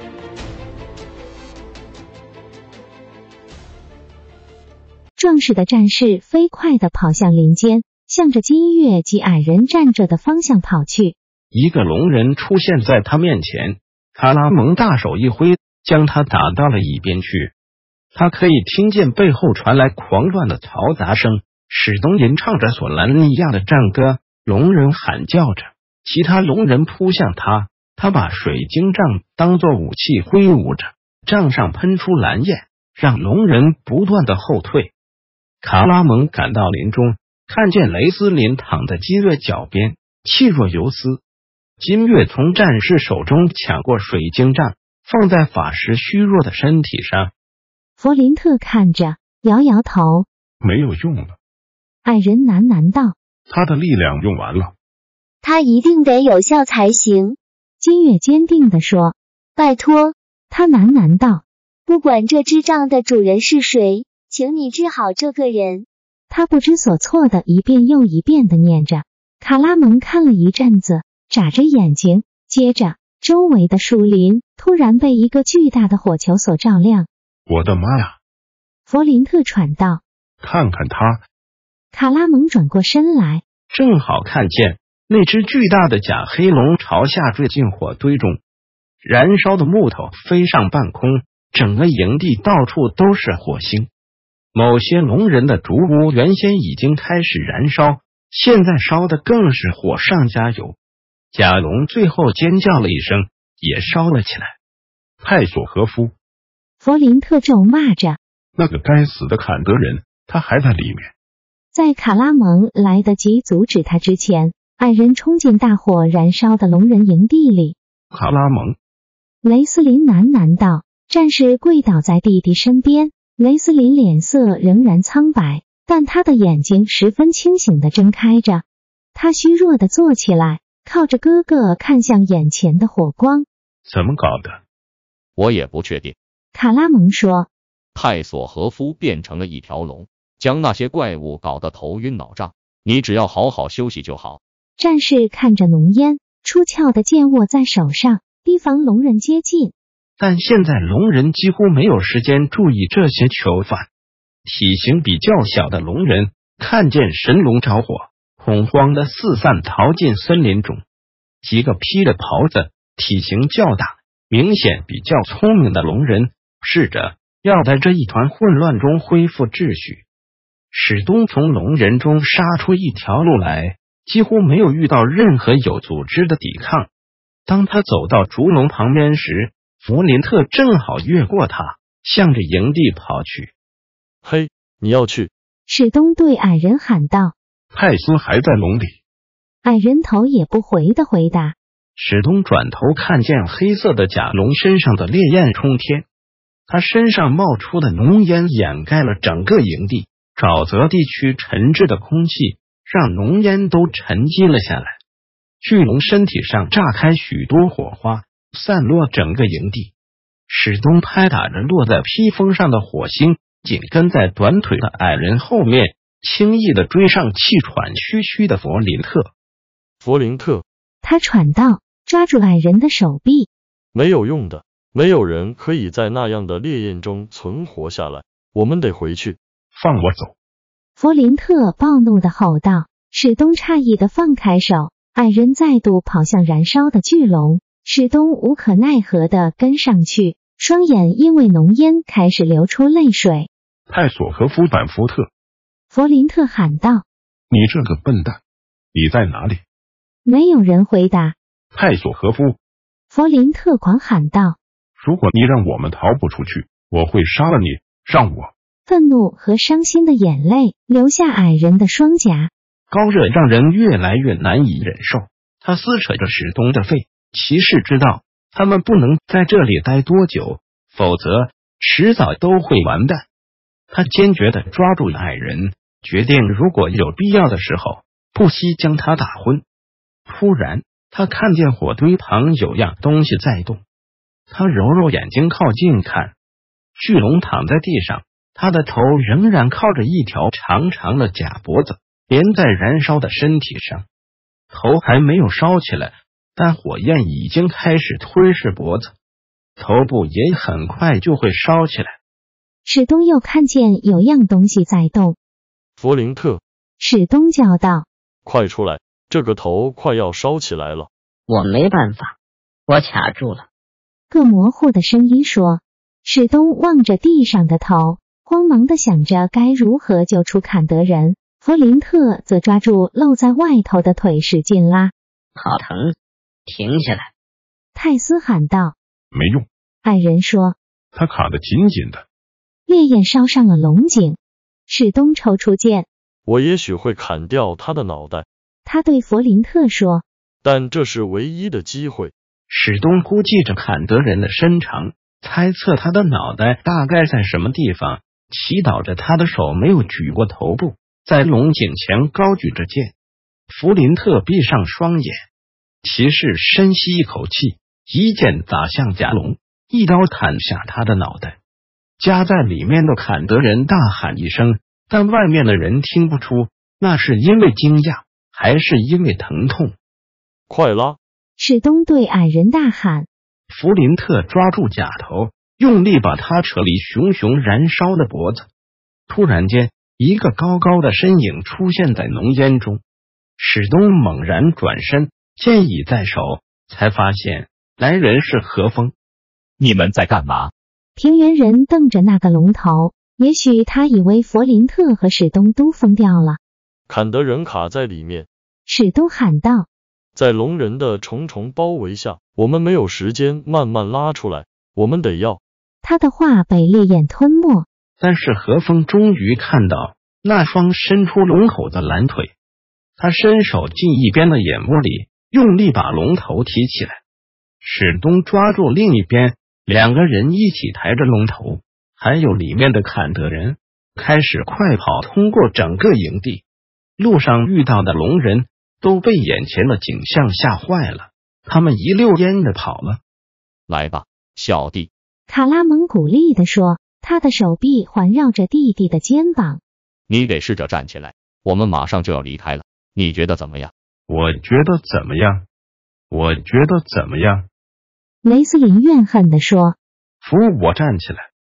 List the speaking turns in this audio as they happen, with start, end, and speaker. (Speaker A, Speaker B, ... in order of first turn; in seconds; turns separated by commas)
Speaker A: 5.2-11.2, Speaker B: 11.5-17.5, Speaker B: 18.1-34.9, Speaker B: 35.6-41.2, Speaker B: 41.8-47.3, Speaker A: 48.0-50.3, Speaker C: 50.6-51.4, Speaker A: 52.0-53.2, Speaker C: 53.5-54.7, Speaker D: 55.4-57.4, Speaker A: 57.8-59.2, Speaker D: 59.5-60.1, Speaker A: 60.5-61.4, Speaker D: 61.9-65.9, Speaker A: 66.3-77.1, Speaker C: 77.5-78.2, Speaker A: 78.9-80.0, Speaker C: 80.4-81.2, Speaker A: 81.9-83.4, Speaker B: 83.7-88.4, Speaker B: 89.0-93.9, Speaker B: 94.5-100.8, Speaker B: 101.3-104.5, Speaker C: 105.2-106.1, Speaker A: 106.8-108.2, Speaker C: 108.5-111.1, Speaker A: 111.7-117.8, Speaker B: 118.1-118.8, Speaker A: 119.4-133.4, Speaker B: 133.8-134.6, Speaker E: 135.3-136.2, Speaker A: 136.5-137.5, Speaker E: 137.9-144.4, Speaker A: 144.8-149.7, Speaker B: 150.2-153.9, Speaker B: 154.4-160.8, Speaker B: 161.4-170.0, Speaker B: 170.7-176.9, Speaker B: 177.5-183.5, Speaker F: 184.2-185.3, Speaker A: 185.7-187.3, Speaker C: 187.7-189.0, Speaker A: 189.6-191.6, Speaker B: 191.9-196.1, Speaker B: 196.7-205.0, Speaker B: 205.6-209.9, Speaker B: 210.5-219.3, Speaker F: 220.0-220.6, Speaker A: 221.0-223.5, Speaker F: 223.9-229.4, Speaker C: 229.7-230.3, Speaker A: 231.0-243.5, Speaker C: 243.9-245.3, Speaker A: 245.9-247.0, Speaker C: 247.5-248.4, Speaker C: 248.9-249.6, Speaker A: 250.2-251.3, Speaker C: 251.7-252.6, Speaker A: 253.1-254.6, Speaker C: 255.0-258.5, Speaker A: 258.9-262.5, Speaker B: 262.9-273.3, Speaker B: 273.9-279.6, Speaker B: 280.2-283.8, Speaker B: 284.5-286.3, Speaker B: 287.0-294.1, Speaker B: 294.7-299.1, Speaker B: 299.8-302.2, Speaker A: 302.8-305.4, Speaker F: 306.0-306.6, Speaker A: 307.0-308.1, Speaker F: 308.4-311.1, Speaker G: 311.5-312.4, Speaker G: 312.9-313.7, Speaker A: 314.3-325.1, Speaker G: 325.6-326.1, Speaker G: 326.7-327.3, Speaker A: 327.9-328.9, Speaker C: 329.3-329.6, Speaker A: 330.0-330.8, Speaker C: 331.1-332.2, Speaker A: 332.9-336.1, Speaker F: 336.4-338.4, Speaker A: 338.8-340.2, Speaker F: 340.6-342.3, Speaker B: 342.7-353.1, Speaker B: 353.7-355.4, Speaker B: 356.0-361.6, Speaker B: 362.2-369.9, Speaker F: 370.7-371.2, Speaker A: 371.6-373.3, Speaker B: 373.7-378.7, Speaker B: 379.3-383.0, Speaker B: 383.6-389.1, Speaker A: 391.1-396.6, Speaker F: 397.1-398.5, Speaker A: 398.9-399.9, Speaker F: 400.3-405.6, Speaker A: 406.0-407.9, Speaker B: 408.2-412.5, Speaker B: 413.2-417.2, Speaker B: 417.8-426.6, Speaker B: 427.2-433.2, Speaker E: 433.9-435.1, Speaker A: 435.5-439.8, Speaker E: 440.3-443.9, Speaker B: 444.3-445.6, Speaker B: 446.3-447.7, Speaker A: 448.4-450.0, Speaker B: 450.4-451.5